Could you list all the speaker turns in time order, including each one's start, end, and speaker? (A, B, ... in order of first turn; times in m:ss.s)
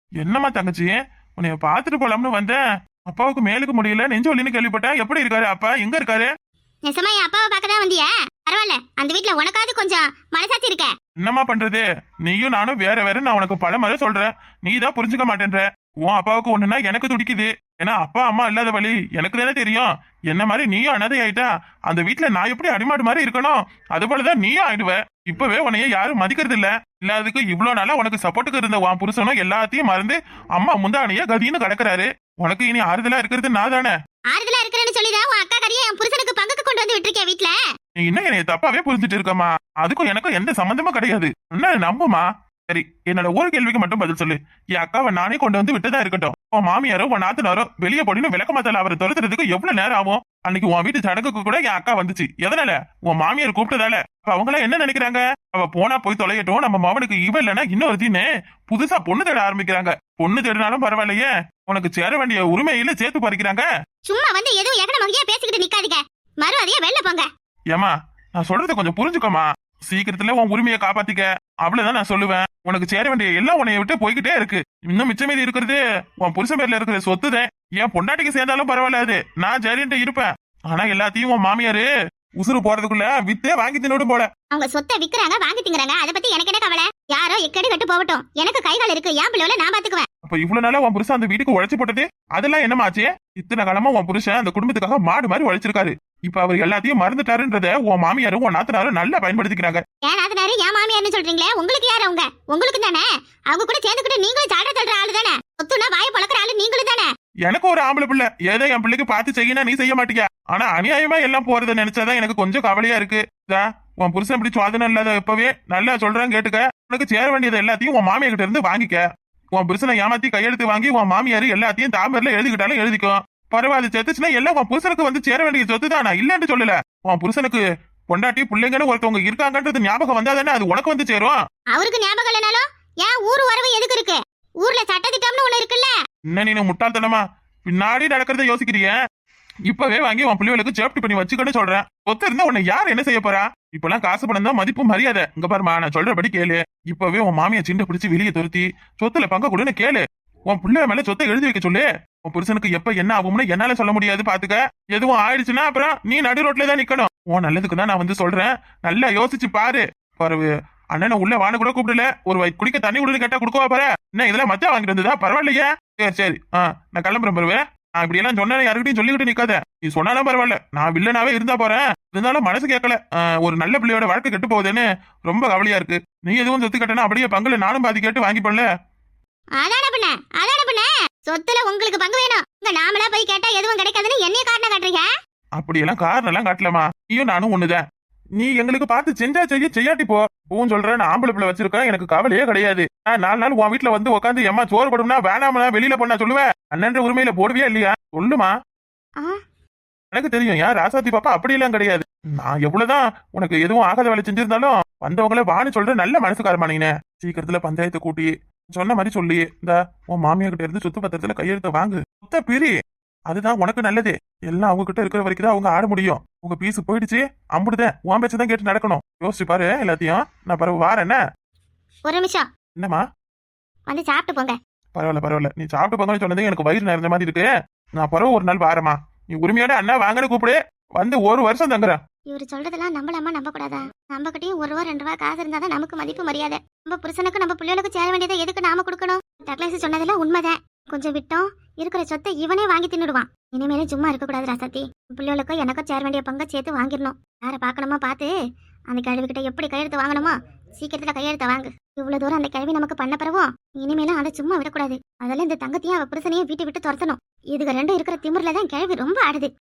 0:00.2-0:06.3 A
0:06.9-0:10.9 B
0:11.2-0:34.0 A
0:34.3-0:37.6 B
0:38.0-1:03.7 A
1:04.1-1:07.3 B
1:07.7-1:21.9 A
1:22.4-1:24.3 A
1:24.5-1:30.1 B
1:30.2-1:39.8 A
1:40.0-1:47.1 B
1:47.4-1:59.0 A
1:59.6-2:11.4 A
2:11.7-2:15.9 B
2:16.3-2:19.0 A
2:19.7-2:58.7 A
2:59.6-3:05.1 B
3:05.6-3:07.8 A
3:08.4-3:18.5 A
3:20.1-3:32.7 A
3:33.3-3:41.2 A
3:42.1-3:42.5 B
3:42.8-3:43.0 A
3:43.9-3:44.6 B
3:45.0-3:52.0 A
3:52.3-4:08.3 B
4:08.9-4:19.5 B